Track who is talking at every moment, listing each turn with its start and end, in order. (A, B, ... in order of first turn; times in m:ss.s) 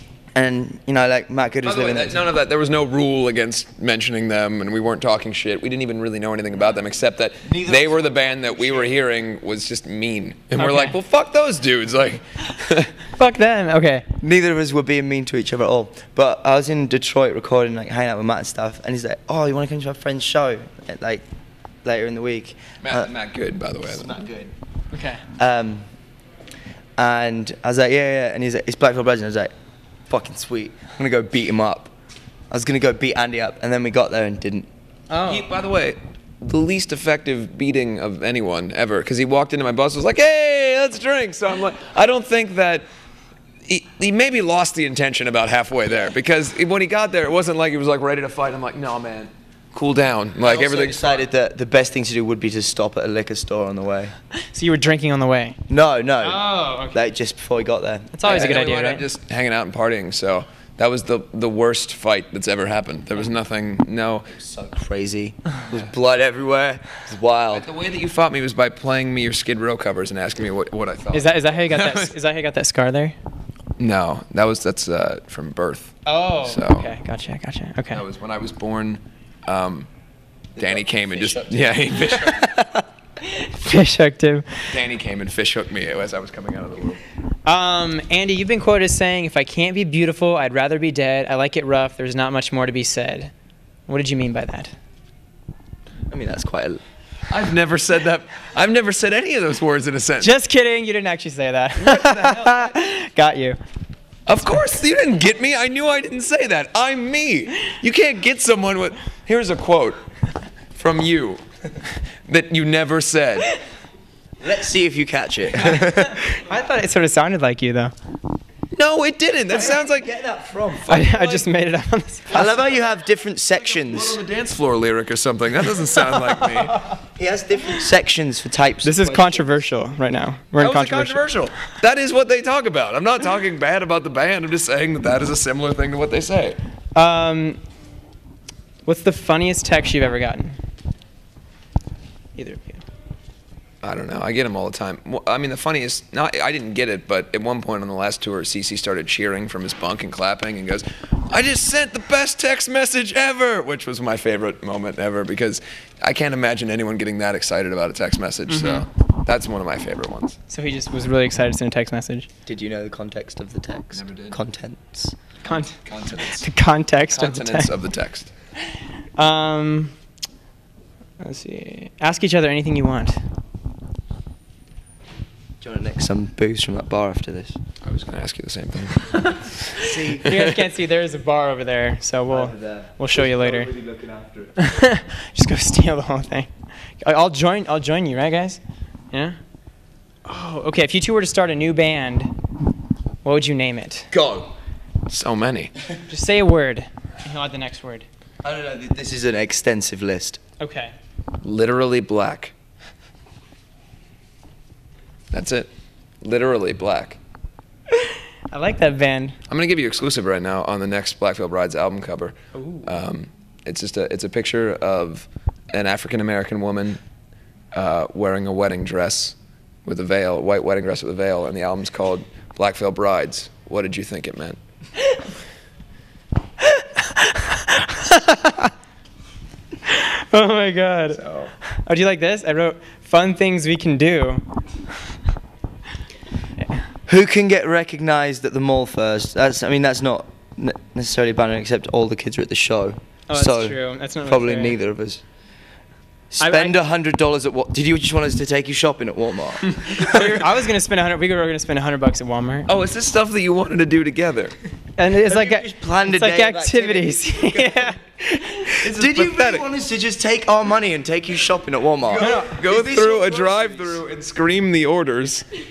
0:00.3-0:02.2 A
0:01.6-0:12.9 B
0:07.4-0:08.9 A
0:10.6-0:11.0 C
0:13.2-0:14.0 C
0:14.2-0:21.2 A
0:21.8-0:23.1 A
0:22.8-0:24.3 B
0:23.8-0:24.5 A
0:24.9-0:25.2 C
0:25.3-0:25.8 A
0:27.0-0:29.5 A
0:30.1-0:31.9 A
0:32.5-0:34.7 A
0:35.1-0:35.5 C
0:35.2-0:42.8 B
0:43.7-0:51.3 B
0:50.4-0:54.1 A
0:54.4-0:55.6 C
0:55.7-0:58.5 A
0:56.2-0:57.0 C
0:58.1-0:59.0 C
0:58.2-1:04.3 B
1:04.3-1:07.6 A
1:07.5-1:12.1 B
1:11.1-1:13.2 C
1:13.8-1:16.9 B
1:16.0-1:18.0 C
1:17.9-1:19.9 B
1:20.6-1:22.5 B
1:20.6-1:22.6 A
1:23.2-1:24.5 C
1:24.7-1:27.0 B
1:27.4-1:33.3 C
1:33.9-1:34.7 C
1:36.1-1:36.8 A
1:37.3-1:40.3 B
1:40.2-1:43.6 C
1:41.8-1:42.8 B
1:44.2-1:50.0 B
1:50.7-1:53.5 B
1:54.4-1:56.3 A
1:55.8-1:57.9 C
1:58.7-2:00.1 B
1:59.5-2:00.9 A
2:00.8-2:01.5 B
2:00.9-2:02.6 C
2:02.3-2:04.2 A
2:03.6-2:06.9 B
2:06.5-2:06.9 C
2:07.0-2:09.6 A
2:08.8-2:11.2 C
2:10.6-2:16.6 B
2:16.9-2:17.6 C
2:18.8-2:20.6 C
2:22.4-2:22.8 C
2:23.8-2:40.4 B
2:38.5-2:38.8 C
2:40.5-2:42.3 C
2:42.4-2:45.2 A
2:43.9-2:44.4 B
2:45.4-2:47.7 C
2:45.4-2:46.5 B
2:47.1-2:48.3 B
2:49.2-2:49.9 C
2:51.2-2:53.2 C
2:55.6-2:57.6 A
2:57.8-3:00.5 B
2:59.8-3:00.3 A
3:00.2-3:03.7 C
3:02.3-3:04.5 A
3:04.6-3:08.6 C
3:09.1-3:09.4 C
3:10.2-3:12.3 C
3:13.2-3:14.1 C
3:14.1-3:14.5 B
3:15.1-3:15.7 B
3:16.1-3:18.0 C
3:18.4-3:20.4 A
3:20.6-3:20.9 C
3:21.4-3:22.5 B
3:25.3-3:25.7 B
3:26.2-3:27.2 B
3:27.9-3:29.4 C
3:29.5-3:37.0 B
3:32.5-3:32.9 C
3:37.7-3:44.6 B
3:46.6-3:48.7 C
3:49.9-3:54.4 C
3:57.1-4:05.2 A
4:03.3-4:04.8 C
4:06.3-4:10.0 A
4:06.4-4:06.7 C
4:10.0-4:12.7 C
4:10.0-4:10.3 B
4:12.7-4:14.5 B
4:15.0-4:18.7 C
4:15.2-4:17.9 A
4:18.7-4:24.0 A
4:18.7-4:19.6 B
4:22.1-4:25.4 B
4:22.2-4:22.6 C